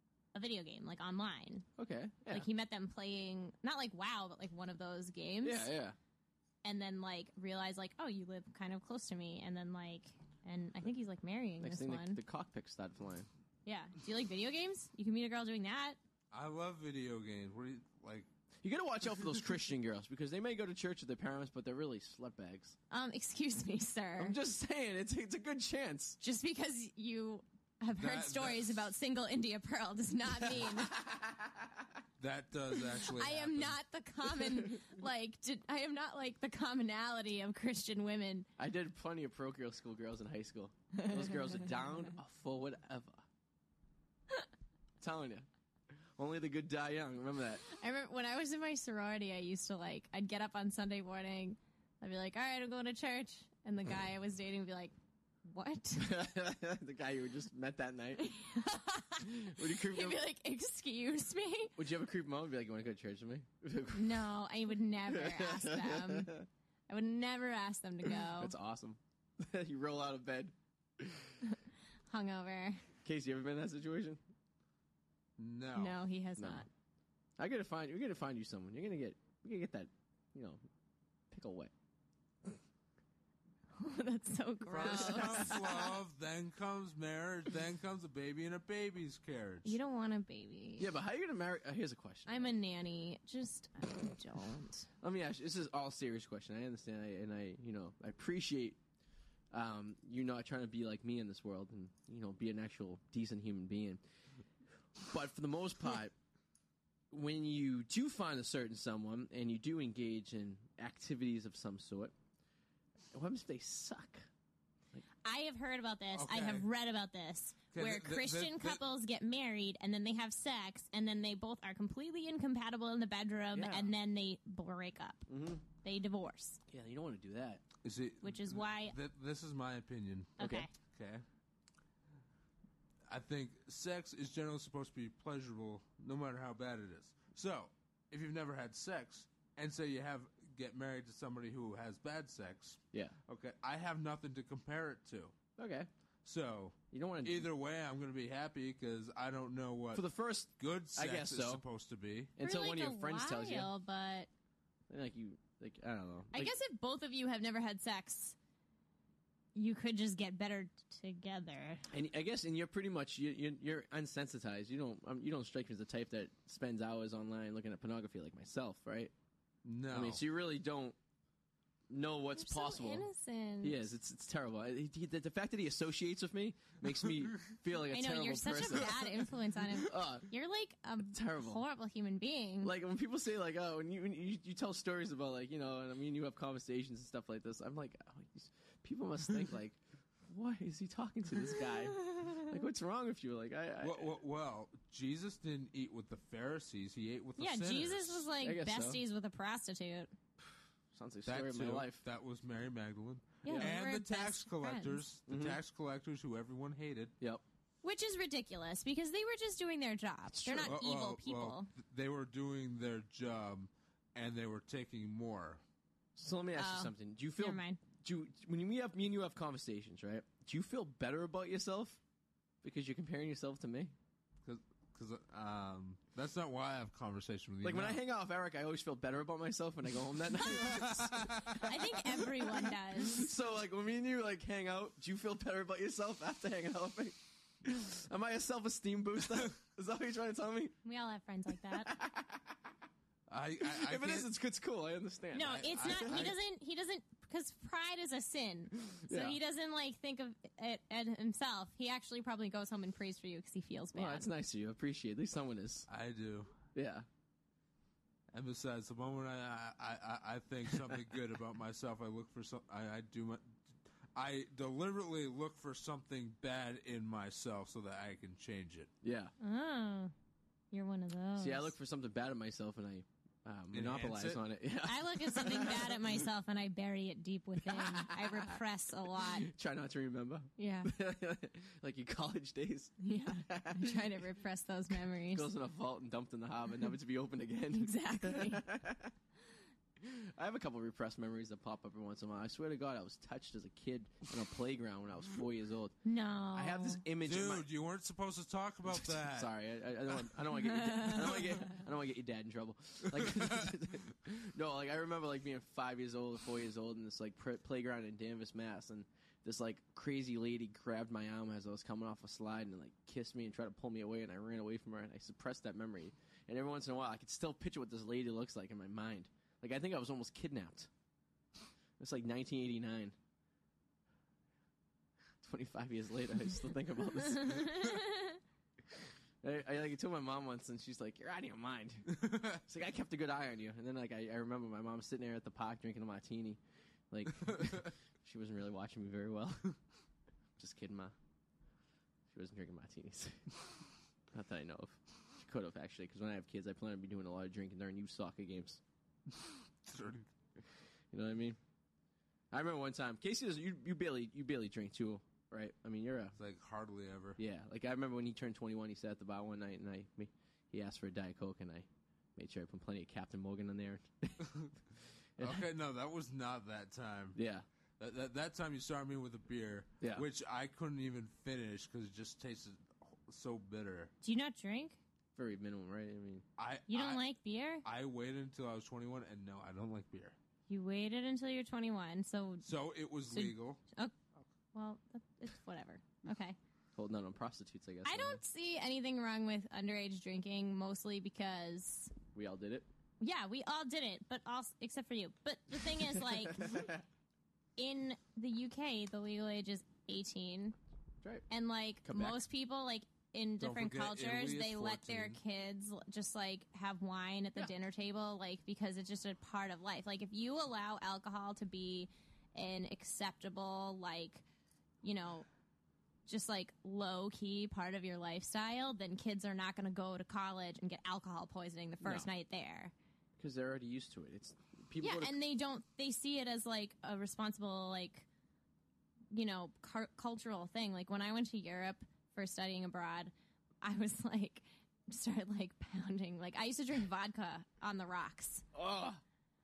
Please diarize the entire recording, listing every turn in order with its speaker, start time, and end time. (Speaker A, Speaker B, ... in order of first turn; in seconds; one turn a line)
Speaker A: 0.3-1.7
Speaker B: 1.8-2.5
Speaker A: 2.3-5.7
Speaker B: 5.4-6.0
Speaker A: 6.6-12.2
Speaker B: 11.6-13.3
Speaker A: 13.6-16.0
Speaker C: 16.3-18.3
Speaker B: 18.6-22.8
Speaker A: 22.9-24.4
Speaker B: 24.2-26.2
Speaker A: 26.2-31.0
Speaker C: 28.0-28.7
Speaker B: 30.6-31.5
Speaker C: 32.2-33.8
Speaker A: 33.0-38.5
Speaker B: 38.6-43.2
Speaker A: 41.0-41.7
Speaker B: 45.0-45.5
Speaker B: 46.2-47.6
Speaker A: 47.7-54.9
Speaker A: 55.5-56.2
Speaker B: 56.0-58.3
Speaker A: 58.2-61.7
Speaker B: 59.2-60.2
Speaker B: 61.8-64.3
Speaker A: 63.9-66.3
Speaker B: 65.1-66.5
Speaker A: 66.9-68.5
Speaker B: 68.4-71.3
Speaker A: 72.1-72.8
Speaker B: 73.0-74.2
Speaker C: 75.4-76.0
Speaker A: 75.8-76.7
Speaker B: 76.4-76.6
Speaker B: 77.4-80.6
Speaker B: 81.3-81.7
Speaker A: 83.8-85.8
Speaker C: 84.7-89.8
Speaker B: 84.7-85.5
Speaker A: 89.6-90.9
Speaker B: 90.8-92.5
Speaker A: 92.3-94.9
Speaker B: 95.0-98.8
Speaker B: 99.5-104.0
Speaker B: 105.0-106.1
Speaker B: 107.1-112.1
Speaker B: 113.1-114.2
Speaker A: 115.2-125.3
Speaker C: 116.1-116.7
Speaker C: 117.7-118.8
Speaker B: 123.5-123.9
Speaker B: 125.3-125.6
Speaker A: 125.8-126.6
Speaker B: 126.7-127.6
Speaker C: 127.8-131.2
Speaker A: 128.2-128.9
Speaker A: 130.4-130.7
Speaker B: 130.4-130.7
Speaker C: 133.1-145.3
Speaker B: 145.6-145.9
Speaker C: 146.2-152.3
Speaker B: 146.9-147.5
Speaker B: 149.9-151.6
Speaker B: 152.3-153.7
Speaker A: 152.4-154.3
Speaker B: 154.9-156.5
Speaker A: 156.3-158.3
Speaker A: 159.5-161.8
Speaker B: 161.9-169.1
Speaker C: 169.6-170.2
Speaker B: 169.9-170.9
Speaker B: 171.9-173.1
Speaker A: 172.4-173.9
Speaker B: 173.6-179.2
Speaker A: 177.9-182.7
Speaker B: 179.8-180.2
Speaker B: 181.1-181.6
Speaker B: 182.6-194.1
Speaker A: 192.1-192.3
Speaker C: 193.8-198.3
Speaker A: 197.4-200.1
Speaker B: 198.4-199.0
Speaker B: 200.9-202.0
Speaker C: 201.2-207.1
Speaker B: 203.4-203.7
Speaker A: 203.4-205.0
Speaker B: 205.3-205.6
Speaker A: 207.8-211.7
Speaker B: 210.3-210.7
Speaker C: 210.7-215.6
Speaker B: 216.2-222.0
Speaker A: 216.6-217.8
Speaker B: 222.6-223.9
Speaker C: 224.4-228.0
Speaker B: 227.6-232.4
Speaker C: 230.5-231.5
Speaker A: 231.2-233.3
Speaker B: 233.0-240.7
Speaker A: 240.8-241.9
Speaker B: 241.8-242.4
Speaker C: 243.3-244.3
Speaker B: 243.6-246.3
Speaker A: 245.3-254.3
Speaker C: 245.4-246.3
Speaker B: 249.1-249.4
Speaker B: 253.9-255.9
Speaker C: 255.9-256.5
Speaker B: 256.7-257.1
Speaker C: 258.3-263.6
Speaker C: 264.1-268.9
Speaker B: 269.0-269.3
Speaker A: 269.4-270.1
Speaker A: 270.7-271.7
Speaker B: 271.4-276.2
Speaker C: 273.7-274.4
Speaker A: 274.8-279.5
Speaker B: 277.6-278.6
Speaker B: 279.1-282.9
Speaker A: 280.6-280.9
Speaker A: 283.0-285.5
Speaker B: 283.5-284.0
Speaker B: 285.3-289.1
Speaker A: 287.7-288.6
Speaker B: 290.0-295.9
Speaker A: 296.0-297.0
Speaker B: 296.5-297.6
Speaker C: 297.2-299.5
Speaker B: 298.9-320.9
Speaker A: 300.8-301.5
Speaker C: 303.1-303.6
Speaker B: 322.0-323.1
Speaker B: 325.4-328.0
Speaker A: 327.4-328.4
Speaker B: 329.4-336.6
Speaker C: 332.2-332.5
Speaker B: 337.1-339.7
Speaker B: 340.6-341.1
Speaker B: 342.3-343.5
Speaker B: 344.3-348.8
Speaker C: 349.4-350.3
Speaker B: 351.1-351.6
Speaker B: 352.5-356.4
Speaker C: 356.4-357.4
Speaker B: 357.4-364.5
Speaker C: 364.4-364.7
Speaker B: 365.4-365.6
Speaker C: 365.4-367.4
Speaker B: 367.3-367.6
Speaker C: 368.0-374.1
Speaker B: 370.0-370.3
Speaker A: 374.2-375.0
Speaker B: 375.4-376.4
Speaker C: 376.6-377.3
Speaker A: 376.9-377.8
Speaker C: 377.8-380.4
Speaker A: 380.7-382.7
Speaker C: 382.6-383.8
Speaker A: 383.3-384.1
Speaker A: 384.7-386.6
Speaker B: 386.9-388.4
Speaker A: 388.0-392.1
Speaker B: 392.3-392.9
Speaker A: 393.2-396.9
Speaker B: 396.7-396.9
Speaker A: 397.8-400.7
Speaker A: 401.5-414.4
Speaker B: 402.0-402.4
Speaker C: 403.6-405.4
Speaker A: 415.0-415.5
Speaker A: 416.3-422.9
Speaker B: 422.0-422.3
Speaker B: 423.4-425.3
Speaker A: 425.0-428.2
Speaker A: 429.3-438.6
Speaker B: 438.7-439.2